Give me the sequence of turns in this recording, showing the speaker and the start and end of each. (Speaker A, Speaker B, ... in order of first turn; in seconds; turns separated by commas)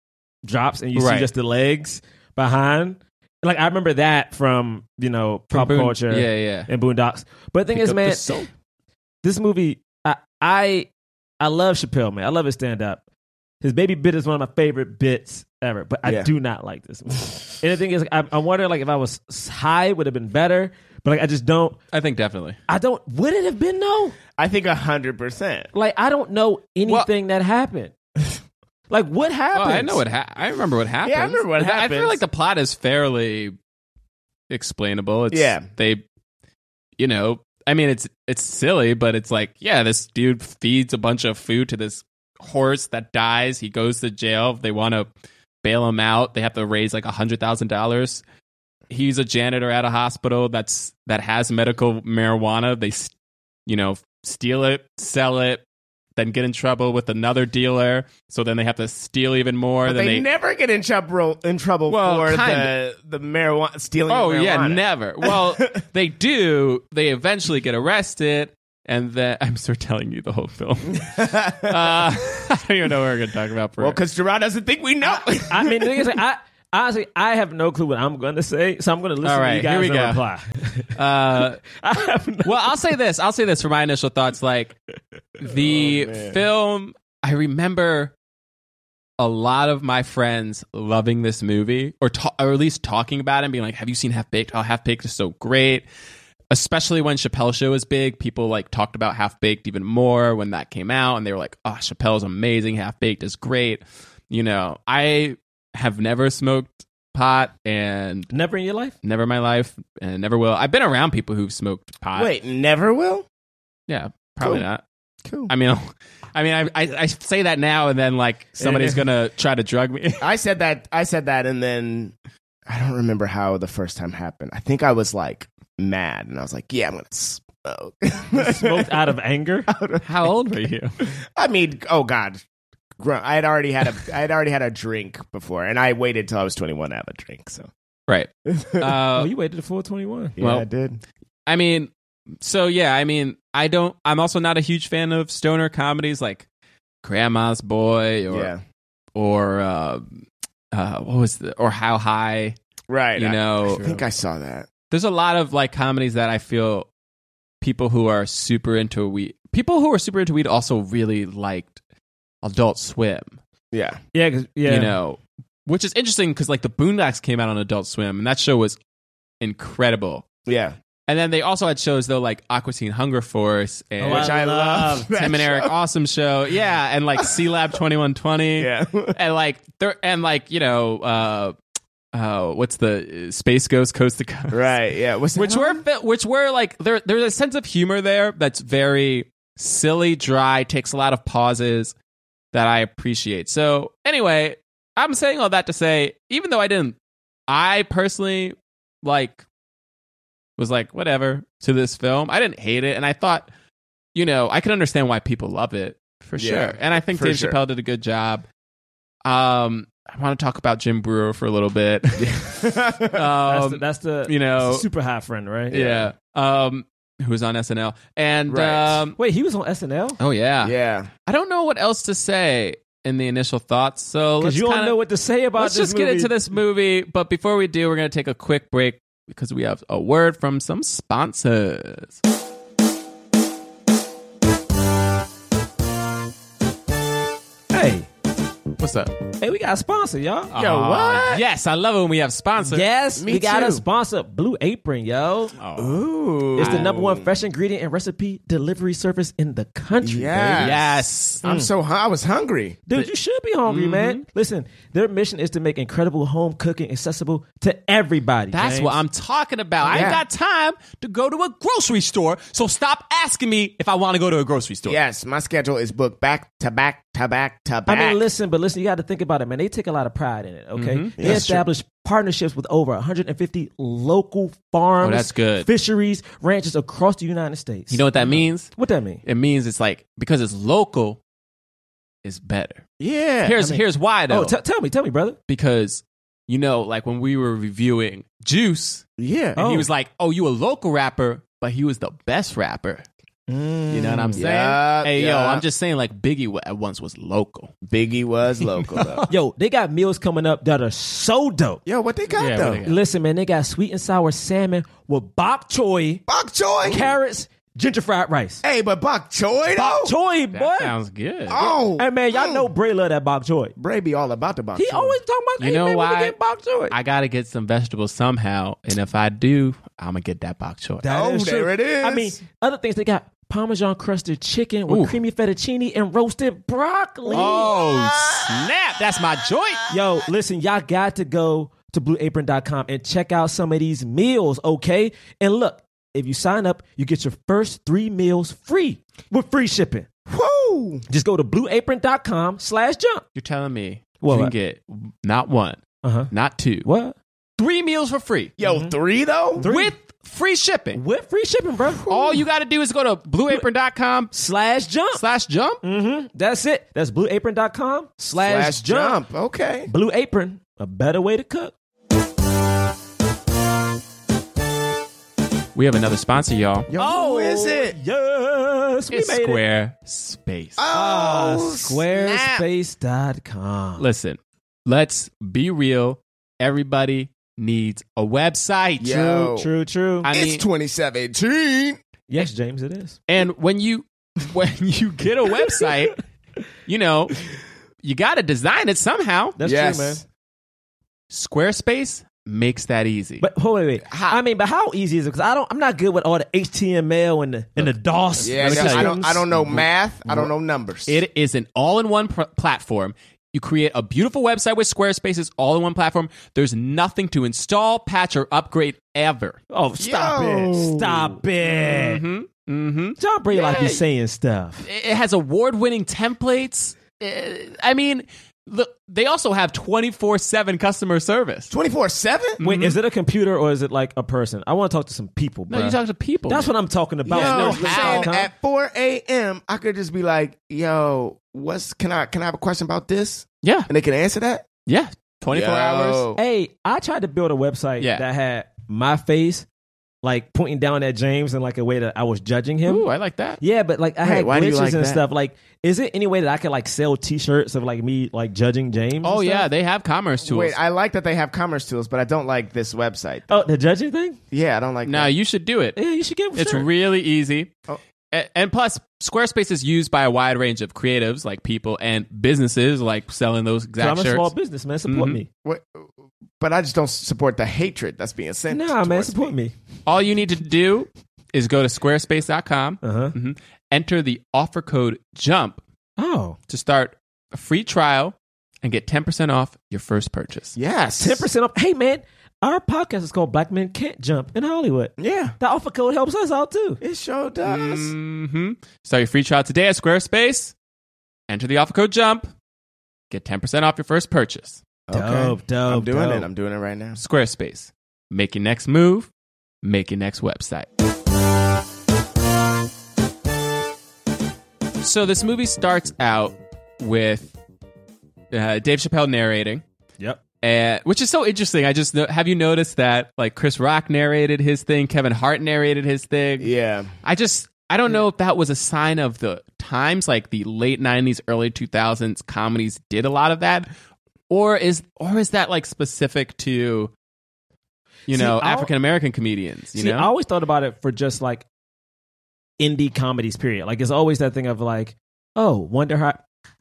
Speaker A: 0.4-8.3, Speaker B: 0.9-1.3, Speaker B: 5.5-6.7, Speaker B: 7.7-8.5, Speaker A: 9.2-10.9, Speaker A: 11.4-13.0, Speaker A: 13.6-21.8, Speaker C: 16.0-16.3, Speaker B: 21.9-22.6, Speaker A: 22.7-24.1, Speaker C: 24.4-25.7, Speaker A: 25.7-27.9, Speaker A: 28.9-30.0, Speaker B: 29.5-33.5, Speaker C: 31.0-32.2, Speaker B: 34.5-36.0, Speaker C: 35.3-35.6, Speaker B: 37.0-45.1, Speaker B: 45.6-48.2, Speaker B: 48.9-53.1, Speaker B: 53.6-55.6, Speaker B: 56.1-60.2, Speaker C: 59.8-65.6, Speaker B: 61.9-62.7, Speaker B: 64.1-74.0, Speaker C: 71.0-72.1, Speaker C: 73.8-76.1, Speaker A: 75.3-80.9, Speaker B: 79.2-80.2, Speaker B: 80.9-81.6, Speaker A: 81.7-82.5, Speaker B: 82.4-84.7, Speaker B: 85.4-88.1, Speaker C: 85.5-86.4, Speaker B: 89.2-95.8, Speaker B: 96.5-108.3, Speaker A: 108.3-108.9, Speaker B: 109.0-112.3, Speaker C: 112.1-113.2, Speaker B: 113.9-114.8, Speaker C: 114.4-114.6, Speaker C: 115.2-115.5, Speaker B: 115.5-120.2, Speaker A: 118.6-119.0, Speaker C: 120.2-122.1, Speaker C: 122.7-129.0, Speaker A: 128.3-129.7, Speaker C: 129.7-130.3, Speaker B: 130.0-130.9, Speaker C: 131.1-132.4, Speaker C: 133.0-137.7, Speaker B: 138.1-139.3, Speaker C: 138.4-139.0, Speaker A: 139.1-140.3, Speaker C: 140.4-141.0, Speaker B: 140.4-140.7, Speaker B: 141.5-146.4, Speaker B: 147.0-148.5, Speaker C: 148.3-148.6, Speaker B: 149.1-150.2, Speaker B: 150.7-152.6, Speaker C: 152.9-154.7, Speaker B: 153.2-154.0, Speaker B: 154.9-156.9, Speaker B: 157.6-161.8, Speaker B: 162.4-163.4, Speaker C: 163.7-164.0, Speaker A: 164.1-164.9, Speaker B: 164.7-168.8, Speaker B: 169.4-170.3, Speaker C: 170.4-170.8, Speaker B: 171.1-174.3, Speaker A: 174.0-175.1, Speaker C: 174.1-175.7, Speaker B: 175.1-181.5, Speaker C: 178.6-179.2, Speaker B: 182.1-184.7, Speaker C: 184.5-185.8, Speaker B: 185.3-191.9, Speaker B: 192.5-196.9, Speaker B: 197.5-199.4, Speaker B: 200.6-203.5, Speaker B: 204.1-208.4, Speaker C: 206.4-207.6, Speaker B: 209.2-214.8, Speaker C: 212.2-213.3, Speaker A: 213.4-215.9, Speaker C: 215.7-216.1, Speaker B: 215.7-219.2, Speaker C: 218.5-219.0, Speaker A: 219.2-220.2, Speaker B: 220.2-225.0, Speaker C: 220.6-221.1, Speaker A: 224.4-226.4, Speaker B: 225.6-232.2, Speaker A: 237.7-238.1, Speaker B: 238.8-239.1, Speaker A: 239.4-240.5, Speaker B: 240.5-242.8, Speaker C: 240.5-241.4, Speaker A: 242.6-245.5, Speaker C: 243.2-243.8, Speaker B: 245.6-246.0, Speaker C: 245.8-247.3, Speaker B: 246.6-246.9, Speaker A: 246.6-250.7, Speaker C: 250.0-252.8, Speaker B: 250.6-251.4, Speaker A: 251.4-251.7, Speaker A: 252.9-259.0, Speaker B: 253.7-254.2, Speaker B: 258.5-265.0, Speaker A: 259.8-260.2, Speaker C: 259.9-260.2, Speaker C: 264.9-268.2, Speaker A: 267.9-279.2, Speaker B: 270.7-271.5, Speaker C: 271.2-271.6, Speaker B: 275.0-275.7, Speaker B: 277.9-278.7, Speaker B: 279.2-281.2, Speaker B: 282.2-282.8, Speaker C: 283.0-283.6, Speaker B: 283.4-284.5, Speaker A: 283.6-285.4, Speaker B: 285.5-289.1, Speaker C: 289.2-289.6, Speaker A: 289.6-289.9, Speaker B: 289.6-293.0, Speaker A: 293.5-294.4, Speaker B: 293.9-297.7, Speaker C: 294.4-295.6, Speaker C: 297.9-299.2, Speaker B: 298.8-299.2, Speaker A: 299.3-301.8, Speaker C: 301.9-302.8, Speaker B: 302.3-303.0, Speaker A: 302.8-306.2, Speaker C: 306.3-307.1, Speaker A: 306.8-308.6, Speaker C: 308.6-310.1, Speaker A: 309.7-310.9, Speaker B: 310.5-311.6, Speaker C: 311.5-312.7, Speaker A: 311.6-313.7, Speaker C: 313.8-315.2, Speaker A: 314.8-316.9, Speaker B: 315.6-316.4, Speaker B: 316.9-321.0, Speaker A: 321.0-327.7, Speaker C: 321.1-322.4, Speaker B: 324.9-325.2, Speaker C: 327.3-328.7, Speaker B: 327.3-329.8, Speaker A: 329.9-340.1, Speaker C: 340.3-341.0, Speaker A: 341.1-343.2, Speaker B: 343.4-346.9, Speaker A: 344.2-344.5, Speaker A: 346.0-346.3, Speaker A: 346.8-347.1, Speaker B: 347.6-348.5, Speaker C: 348.6-349.6, Speaker A: 348.6-348.9, Speaker A: 349.6-349.9, Speaker B: 349.6-351.0, Speaker A: 350.9-352.1, Speaker B: 352.1-354.3, Speaker A: 354.3-355.2, Speaker B: 355.1-355.8, Speaker A: 355.8-359.2, Speaker C: 358.4-359.9, Speaker A: 359.9-361.7, Speaker B: 365.7-366.9, Speaker C: 366.9-367.9, Speaker A: 366.9-369.6, Speaker B: 369.1-370.8, Speaker C: 370.8-372.6, Speaker A: 370.9-374.1, Speaker B: 374.0-379.4, Speaker C: 379.0-379.7, Speaker A: 379.4-380.3, Speaker B: 380.2-380.6, Speaker C: 380.2-382.0, Speaker A: 382.3-383.2, Speaker B: 383.3-386.2, Speaker B: 386.9-387.4, Speaker B: 388.0-389.6, Speaker A: 389.6-390.2, Speaker C: 389.6-390.2, Speaker B: 391.3-393.4, Speaker A: 393.4-399.8, Speaker C: 394.0-394.4, Speaker B: 398.4-400.5, Speaker C: 398.4-401.2, Speaker B: 401.1-409.6, Speaker A: 409.7-412.2, Speaker C: 410.0-411.4, Speaker B: 411.6-414.0, Speaker A: 413.2-414.8, Speaker B: 414.8-421.7, Speaker C: 421.7-422.6, Speaker B: 422.6-423.0, Speaker A: 422.6-428.5, Speaker B: 425.7-426.7, Speaker B: 427.3-428.3, Speaker C: 427.3-434.7, Speaker B: 433.6-433.9, Speaker B: 434.9-436.3, Speaker C: 435.5-436.4, Speaker A: 436.4-439.6, Speaker A: 440.2-443.1, Speaker B: 442.9-443.6, Speaker A: 443.6-449.7, Speaker C: 444.2-445.2, Speaker B: 449.2-450.8, Speaker C: 450.4-453.4, Speaker A: 453.5-454.4, Speaker C: 454.5-455.3, Speaker B: 455.0-456.0, Speaker A: 455.9-456.9, Speaker B: 456.5-457.7, Speaker B: 458.3-464.5, Speaker A: 464.0-465.5, Speaker B: 465.1-465.4, Speaker C: 465.6-466.1, Speaker C: 466.6-469.5, Speaker A: 468.7-469.7, Speaker B: 470.1-475.8, Speaker A: 473.0-473.3, Speaker A: 476.2-476.6, Speaker B: 476.7-480.8, Speaker C: 480.8-481.5, Speaker A: 481.2-487.0, Speaker C: 485.2-485.5, Speaker C: 487.0-488.1, Speaker B: 487.6-490.7, Speaker B: 491.5-492.5, Speaker B: 493.3-494.8, Speaker C: 495.1-497.2, Speaker A: 495.1-496.5, Speaker B: 497.2-499.3, Speaker B: 499.8-500.9, Speaker B: 505.0-507.5, Speaker B: 508.5-509.8, Speaker B: 510.6-516.7, Speaker C: 516.6-517.1, Speaker B: 517.2-523.9, Speaker B: 524.5-527.1, Speaker B: 528.3-530.3, Speaker A: 528.3-528.9, Speaker A: 529.9-531.6, Speaker A: 532.8-536.4